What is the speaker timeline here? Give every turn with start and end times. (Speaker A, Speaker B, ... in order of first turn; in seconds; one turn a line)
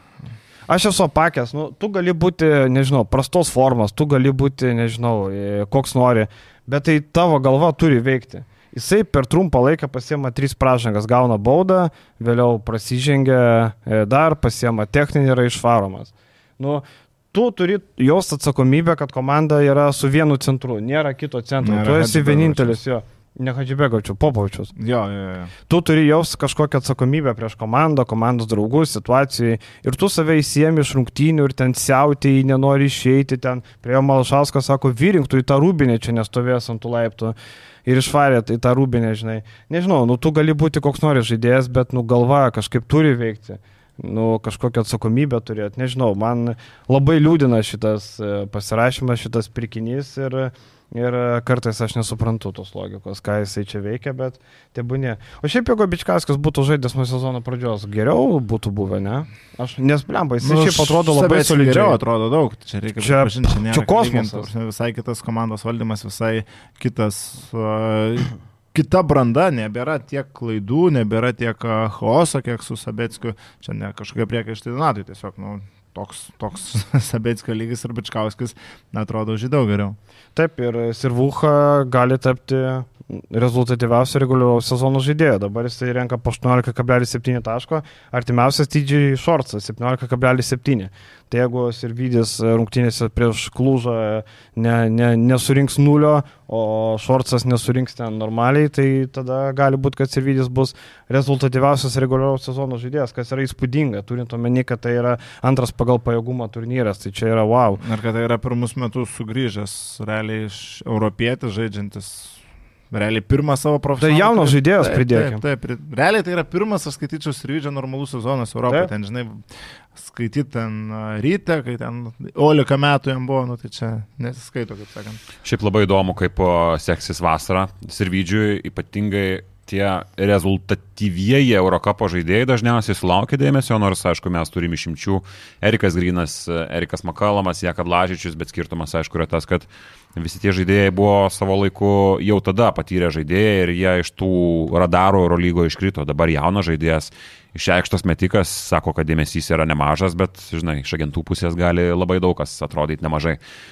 Speaker A: 0.7-24.7
Speaker B: 21.6-22.8
Speaker B: 24.8-25.5
Speaker A: 25.7-62.0
Speaker B: 60.4-80.0
Speaker A: 63.0-64.5
Speaker A: 80.3-107.8
Speaker B: 107.8-112.4
Speaker B: 112.9-125.2
Speaker A: 114.0-115.4
Speaker C: 125.4-153.4